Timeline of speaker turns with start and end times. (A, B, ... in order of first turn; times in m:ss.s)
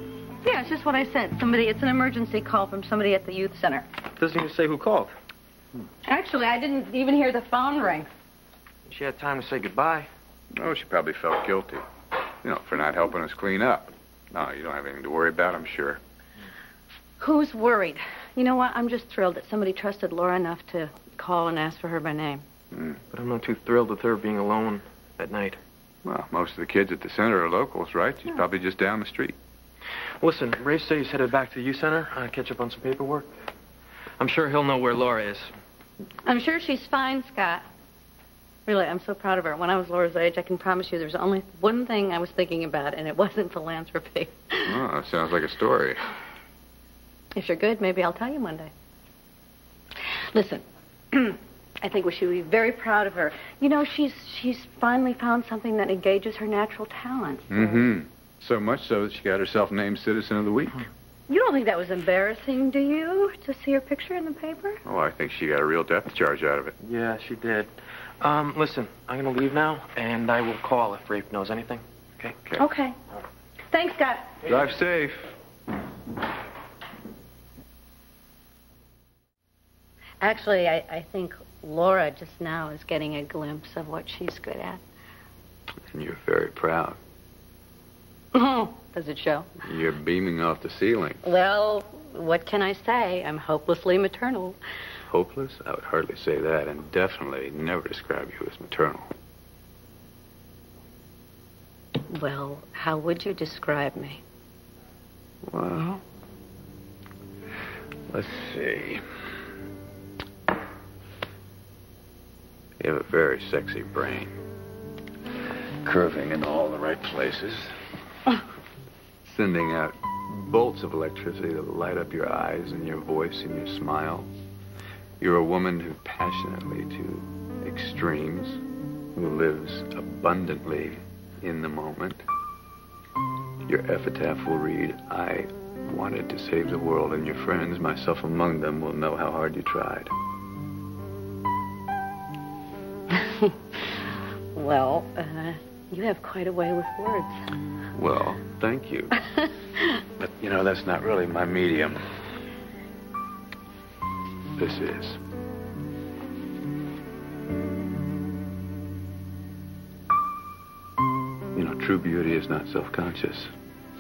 0:00.4-0:03.8 A
0:04.2-0:05.2 B
0:06.1-0:08.1 A
0:08.9-0:10.1 B
0:10.5-0:11.8 C
0:12.4-0:16.0 C
0:17.2-0:22.4 A
0:22.7-0:23.0 C
0:23.1-0:25.6 B
0:26.0-0:29.4 C
0:30.2-0:33.4 B
0:34.2-0:35.5 B
0:36.3-0:37.6 A
0:38.7-0:44.8 A
0:44.6-0:46.0 C
0:47.4-0:48.7 A
0:50.1-0:57.8 A
0:57.5-1:00.9 C
1:01.3-1:04.8 A
1:04.8-1:06.8 C
1:06.8-1:07.7 B
1:08.2-1:12.4 B
1:12.6-1:13.0 A
1:13.7-1:14.4 A
1:14.4-1:15.4 C
1:20.2-1:24.8 A
1:25.9-1:27.0 C
1:28.3-1:29.5 A
1:29.6-1:31.2 C
1:31.2-1:34.6 A
1:35.1-1:39.1 C
1:42.1-1:44.2 A
1:45.5-1:46.0 C
1:48.1-1:49.0 C
1:52.8-1:54.4 C
1:55.8-1:57.8 C
1:59.2-2:04.3 C
2:05.2-2:08.6 C
2:09.2-2:12.2 C
2:13.7-2:20.1 C
2:24.6-2:27.4 A
2:27.9-2:29.2 C
2:30.2-2:32.2 C
2:34.6-2:35.2 C
2:41.6-2:43.5 C